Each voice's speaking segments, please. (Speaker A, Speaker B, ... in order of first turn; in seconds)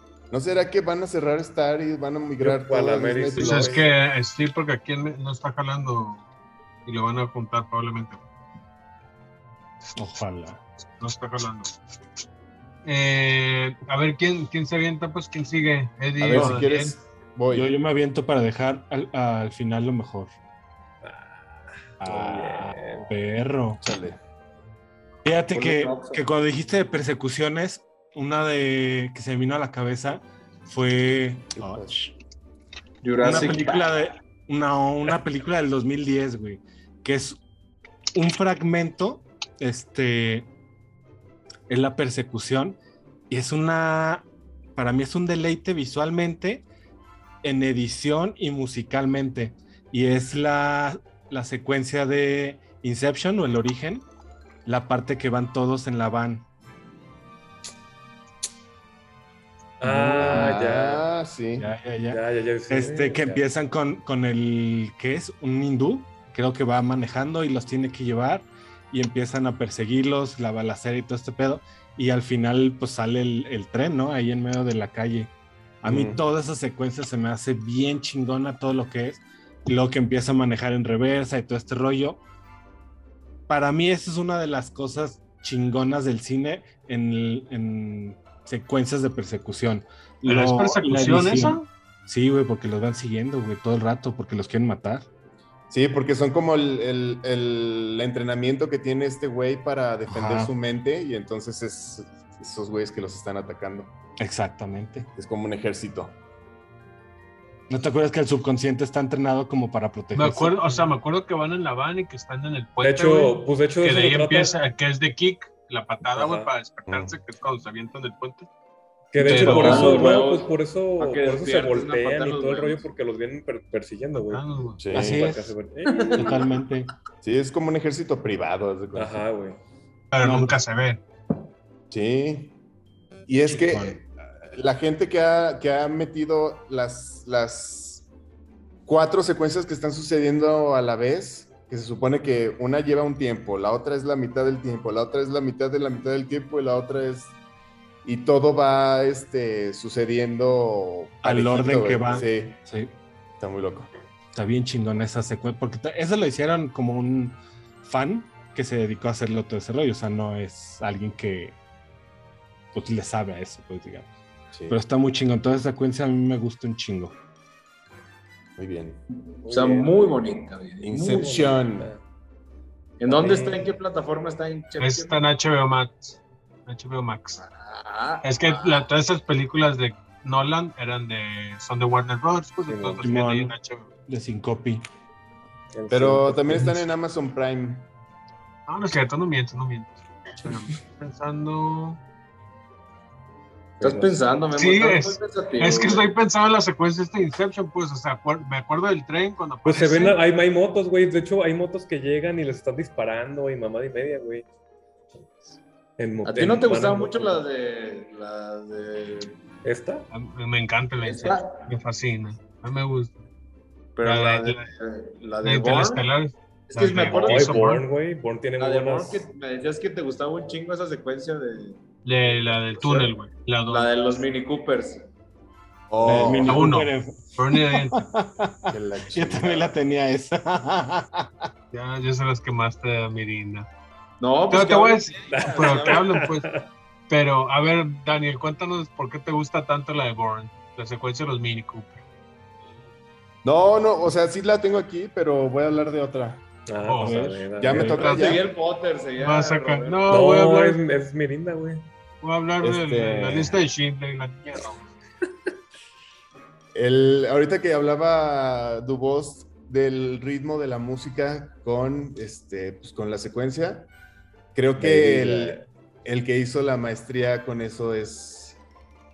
Speaker A: 0.3-3.9, 16.2-17.7, 23.8-24.2, 31.6-32.0, 60.2-61.6, 75.8-76.2, 95.7-103.9, 105.2-106.2, 116.9-117.2, 124.8-125.2, 127.2-129.2, 131.9-132.6, 133.3-138.1, 138.9-147.3, 148.0-152.6, 153.4-153.9, 164.5-164.8, 168.6-169.0, 170.8-171.9, 185.9-187.9, 225.9-226.6, 228.7-229.8, 243.4-246.4, 247.6-248.4, 252.6-253.5, 256.7-263.9, 264.6-268.6
Speaker B: 2.4-3.9, 21.0-21.5, 22.0-23.1, 59.8-61.1, 62.1-63.4, 112.8-114.6, 116.2-116.5, 119.1-126.5, 128.9-129.6, 169.4-170.1, 170.9-172.0, 173.1-173.8, 182.6-183.0, 185.7-186.6, 193.8-194.2, 199.7-204.5, 205.4-207.4, 209.6-210.1, 217.1-219.2, 235.3-236.7, 246.7-248.0, 250.1-251.9, 264.8-265.6
Speaker C: 3.4-6.2, 6.9-8.2, 9.8-10.2, 10.9-11.8, 12.8-17.0, 90.2-91.6, 110.1-118.5, 119.2-120.2, 124.2-124.9, 130.1-131.0, 174.8-177.4, 178.2-183.9, 188.7-192.0, 194.6-200.2, 210.1-213.2, 214.1-214.7, 215.4-217.8, 222.1-223.9, 226.4-228.1, 231.7-233.7, 234.5-236.5, 237.1-242.0, 246.9-247.2, 247.7-248.4, 249.2-250.8, 252.2-254.9
Speaker D: 10.0-10.6, 16.3-16.7, 17.5-20.3, 22.0-23.8, 25.2-32.1, 33.2-37.4, 38.1-40.5, 41.7-42.8, 43.3-46.6, 47.4-54.1, 54.6-56.5, 59.8-60.6, 61.6-82.2, 83.5-95.0, 100.1-100.5, 104.2-105.1, 107.7-110.6, 124.9-125.5, 126.1-126.9, 130.2-130.6, 133.5-134.0, 151.2-152.9, 154.3-161.6, 162.7-164.1, 164.7-167.2, 183.0-183.5, 184.1-184.8, 186.5-186.8, 226.0-231.3, 247.0-248.0
Speaker E: 25.5-26.2, 33.0-33.9, 119.2-122.8, 125.9-126.5, 169.1-171.3, 173.0-175.2, 177.4-178.9, 193.8-196.1, 206.2-209.4, 211.0-211.7, 214.0-216.1, 216.7-217.8, 218.6-223.2, 223.7-225.1, 234.2-236.1, 248.0-250.1